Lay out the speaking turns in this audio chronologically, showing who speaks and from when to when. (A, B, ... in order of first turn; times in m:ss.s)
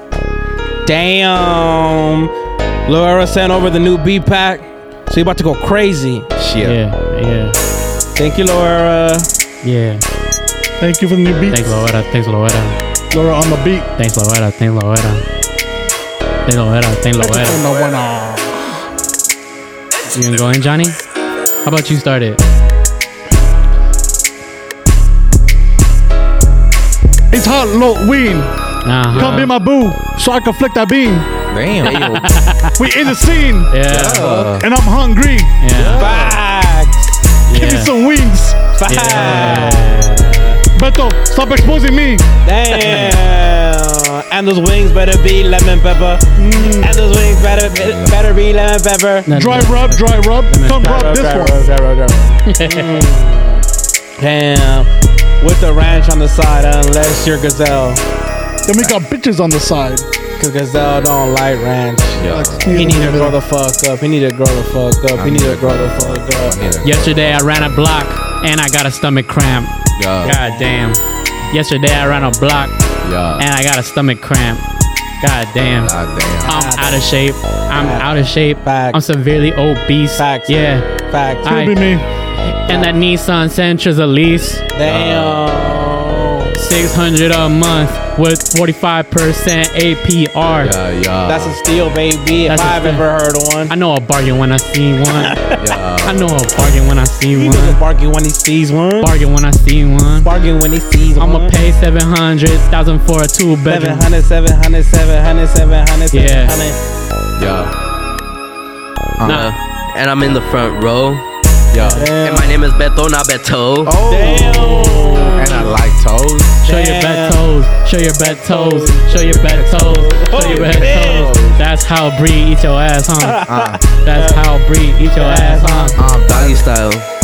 0:00.9-0:02.3 A
0:02.9-0:06.3 A
0:06.4-0:06.8 B
0:06.6-0:07.6 C
0:08.2-0:09.3 A
0:09.6-0:10.0 C
0:10.8-0:11.9 D
0:11.5-0:12.8 C
0:13.1-0:13.9 D
0:14.0-0:15.2 C
0:16.5-0:17.6 C
0:17.2-0:18.7 D
0:20.1-0:21.0 C
0:21.6-0:22.4 C
0:27.3-0:28.5 D
0:28.8-0:29.5 C
0:29.1-0:31.3 D
0:31.5-0:32.3 B
0:31.8-0:32.8 C
0:32.8-0:33.7 D
0:33.7-0:34.5 C
0:33.9-0:34.7 B
0:34.5-0:35.6 D
0:35.6-0:36.2 C
0:35.8-0:36.3 B
0:35.9-0:37.1 A
0:37.5-0:37.9 C
0:37.5-0:38.7 D
0:38.7-0:40.6 A
0:38.9-0:40.3 C
0:40.7-0:42.3 D
0:42.4-0:49.4 A
0:42.8-0:43.2 C
0:46.4-0:46.9 D
0:47.7-0:48.1 B
0:49.3-0:51.0 C
0:49.3-0:51.6 D
0:50.6-0:53.6 A
0:52.5-0:53.1 C
0:54.2-0:58.0 A
0:58.7-1:00.1 D
1:00.4-1:06.6 A
1:02.2-1:02.8 B
1:02.3-1:03.4 D
1:05.2-1:07.8 B
1:06.8-1:12.8 C
1:10.0-1:10.4 B
1:10.3-1:10.6 A
1:13.0-1:13.5 B
1:13.4-1:14.6 C
1:15.2-1:20.9 C
1:15.8-1:16.5 B
1:16.4-1:16.9 A
1:17.8-1:19.0 A
1:20.2-1:21.6 A
1:21.4-1:21.9 C
1:21.4-1:22.1 D
1:22.5-1:24.6 C
1:24.7-1:26.5 A
1:24.8-1:26.0 B
1:26.6-1:30.7 C
1:30.6-1:31.6 B
1:31.3-1:33.7 A
1:32.5-1:33.1 C
1:33.7-1:35.4 C
1:35.1-1:35.7 A
1:35.6-1:36.4 B
1:36.0-1:37.8 C
1:37.3-1:39.2 A
1:39.0-1:40.3 C
1:40.2-1:41.6 A
1:41.2-1:44.1 C
1:43.7-1:46.8 A
1:46.1-1:46.6 C
1:47.4-1:47.7 B
1:49.2-1:49.4 B
1:49.2-1:51.2 E
1:49.2-1:49.5 C
1:51.7-1:52.1 B
1:51.9-1:52.5 A
1:52.2-1:54.0 E
1:53.8-1:56.6 B
1:54.1-1:55.7 A
1:55.1-1:55.3 C
1:56.6-2:03.5 C
1:56.7-1:57.4 A
1:58.2-1:59.3 A
1:59.2-2:01.6 B
1:59.9-2:01.3 A
2:03.2-2:04.4 A
2:03.5-2:03.8 B
2:04.0-2:06.0 C
2:05.1-2:06.0 A
2:06.0-2:06.6 B
2:06.3-2:07.1 E